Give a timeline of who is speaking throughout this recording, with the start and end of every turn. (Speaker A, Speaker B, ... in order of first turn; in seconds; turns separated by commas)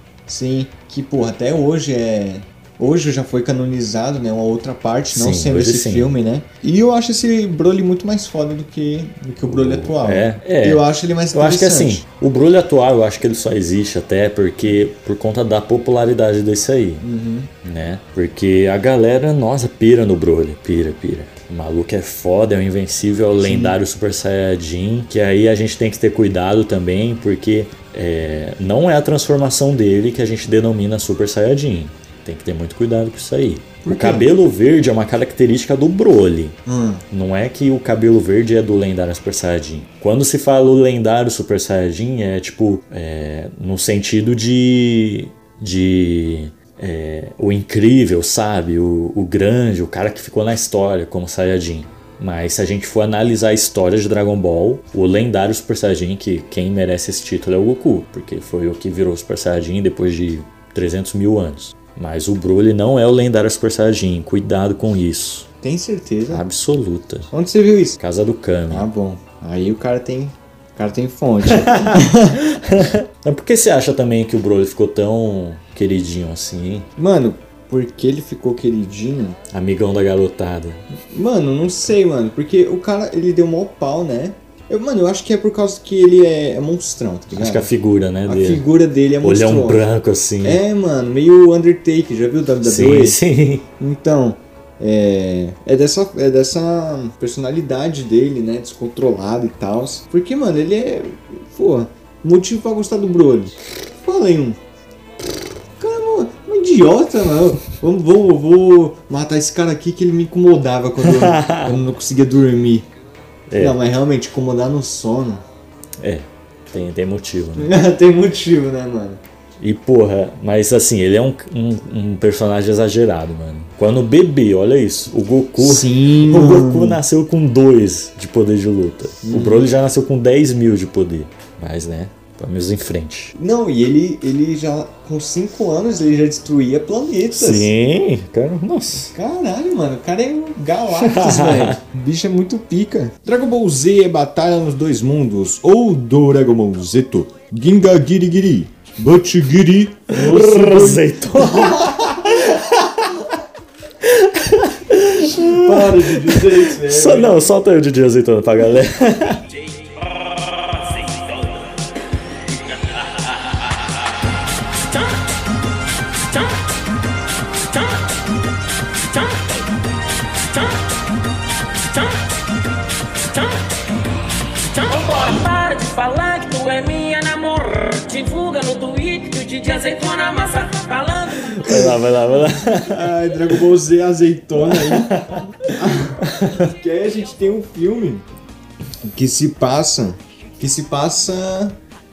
Speaker A: 0.3-12.0, Speaker B: 5.1-6.1, Speaker B: 9.4-17.0, Speaker A: 17.0-17.5, Speaker B: 17.6-36.6, Speaker A: 23.4-23.8, Speaker A: 33.8-34.3, Speaker A: 36.6-37.0, Speaker B: 37.1-65.5, Speaker A: 65.6-66.4, Speaker B: 66.3-67.3, Speaker A: 67.3-68.0, Speaker B: 68.0-68.9, Speaker A: 68.7-72.4, Speaker B: 71.5-76.9, Speaker A: 77.0-79.4, Speaker B: 79.5-80.8, Speaker A: 81.1-87.7, Speaker B: 87.3-88.7, Speaker A: 88.2-89.8, Speaker B: 89.2-90.6, Speaker A: 90.4-93.2, Speaker B: 92.6-93.7, Speaker A: 93.8-104.6, Speaker A: 105.8-112.9, Speaker B: 111.0-111.8, Speaker B: 113.5-113.8, Speaker A: 113.6-115.4, Speaker B: 116.0-117.7, Speaker A: 117.5-119.2, Speaker B: 119.6-133.3, Speaker A: 125.6-127.0, Speaker A: 129.2-129.7, Speaker A: 133.3-137.7, Speaker B: 137.3-139.1, Speaker A: 139.1-152.3, Speaker B: 140.9-141.8, Speaker B: 150.1-153.2, Speaker B: 154.0-159.4, Speaker A: 155.1-157.5, Speaker C: 160.8-161.5, Speaker C: 162.7-163.0, Speaker C: 164.8-165.3, Speaker C: 166.3-166.7, Speaker C: 167.7-168.2, Speaker C: 169.1-169.6, Speaker C: 170.5-170.9, Speaker C: 171.9-172.3, Speaker C: 173.3-173.8, Speaker C: 174.7-181.7, Speaker B: 181.5-183.5, Speaker A: 181.7-181.9, Speaker A: 182.8-188.2, Speaker B: 184.6-185.4, Speaker B: 186.2-186.6, Speaker A: 189.1-191.8